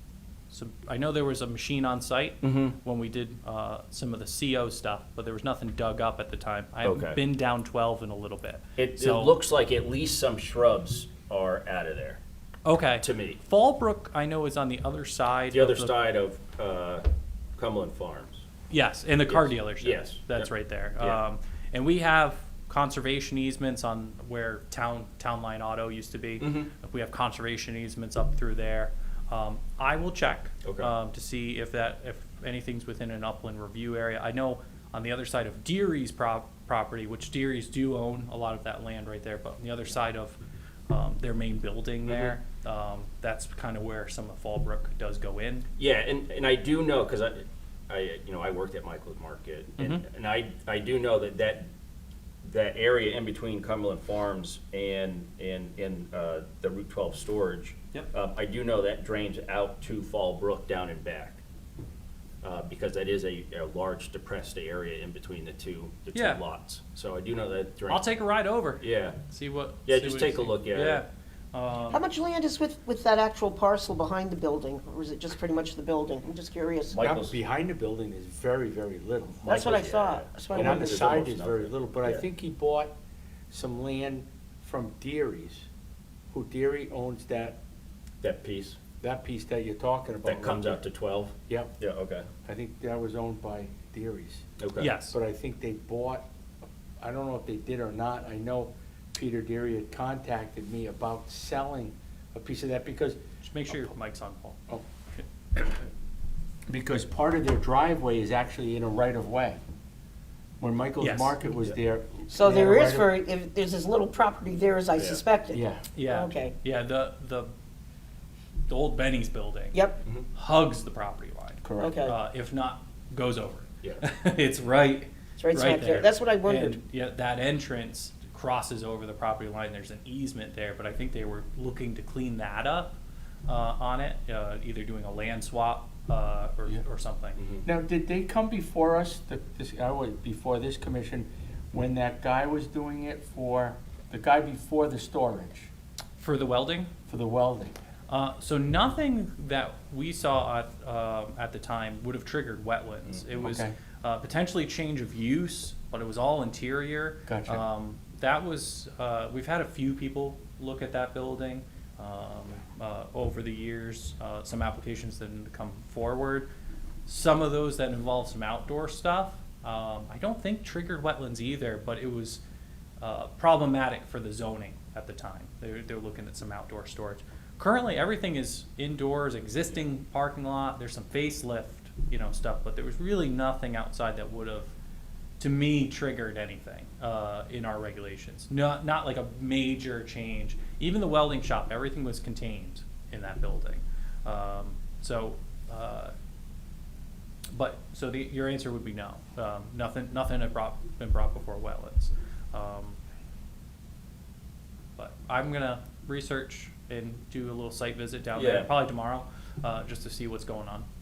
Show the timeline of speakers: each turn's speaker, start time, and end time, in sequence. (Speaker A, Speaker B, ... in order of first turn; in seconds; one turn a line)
Speaker A: 0.5-9.3
Speaker B: 2.4-2.8
Speaker B: 6.8-7.2
Speaker B: 8.8-12.2
Speaker A: 12.6-15.9
Speaker B: 13.0-13.4
Speaker B: 15.5-18.4
Speaker A: 18.7-40.4
Speaker B: 19.3-21.2
Speaker B: 26.4-26.7
Speaker B: 30.6-30.9
Speaker A: 40.9-45.7
Speaker B: 42.0-42.4
Speaker B: 45.8-51.7
Speaker A: 49.8-50.0
Speaker B: 52.4-61.4
Speaker B: 62.4-68.1
Speaker A: 66.1-66.4
Speaker A: 67.9-72.0
Speaker B: 68.8-69.2
Speaker B: 69.8-71.0
Speaker C: 71.9-76.9
Speaker B: 76.9-77.4
Speaker D: 77.0-79.5
Speaker C: 79.4-81.1
Speaker B: 79.4-82.2
Speaker D: 80.5-82.9
Speaker D: 83.5-85.7
Speaker D: 86.3-87.6
Speaker B: 88.2-88.8
Speaker D: 89.0-90.8
Speaker B: 90.2-92.3
Speaker D: 91.5-91.7
Speaker D: 92.4-94.4
Speaker B: 94.6-94.9
Speaker A: 94.8-95.2
Speaker D: 95.0-96.2
Speaker D: 97.0-103.2
Speaker A: 103.4-104.6
Speaker A: 105.1-105.8
Speaker D: 106.7-109.6
Speaker D: 110.6-113.1
Speaker A: 111.0-111.3
Speaker C: 112.3-116.5
Speaker B: 115.0-115.2
Speaker D: 115.5-115.9
Speaker A: 115.9-117.5
Speaker A: 118.7-119.8
Speaker C: 119.7-120.0
Speaker A: 120.3-132.9
Speaker D: 121.6-122.0
Speaker C: 121.8-122.2
Speaker C: 125.4-126.8
Speaker A: 133.4-137.4
Speaker B: 137.4-137.6
Speaker D: 137.6-145.7
Speaker A: 146.2-146.9
Speaker D: 147.1-147.8
Speaker A: 148.1-166.5
Speaker D: 153.4-153.7
Speaker D: 157.3-157.6
Speaker A: 167.1-172.4
Speaker A: 173.0-184.7
Speaker A: 185.4-196.1
Speaker A: 197.5-203.0
Speaker A: 205.0-210.8
Speaker B: 208.3-208.7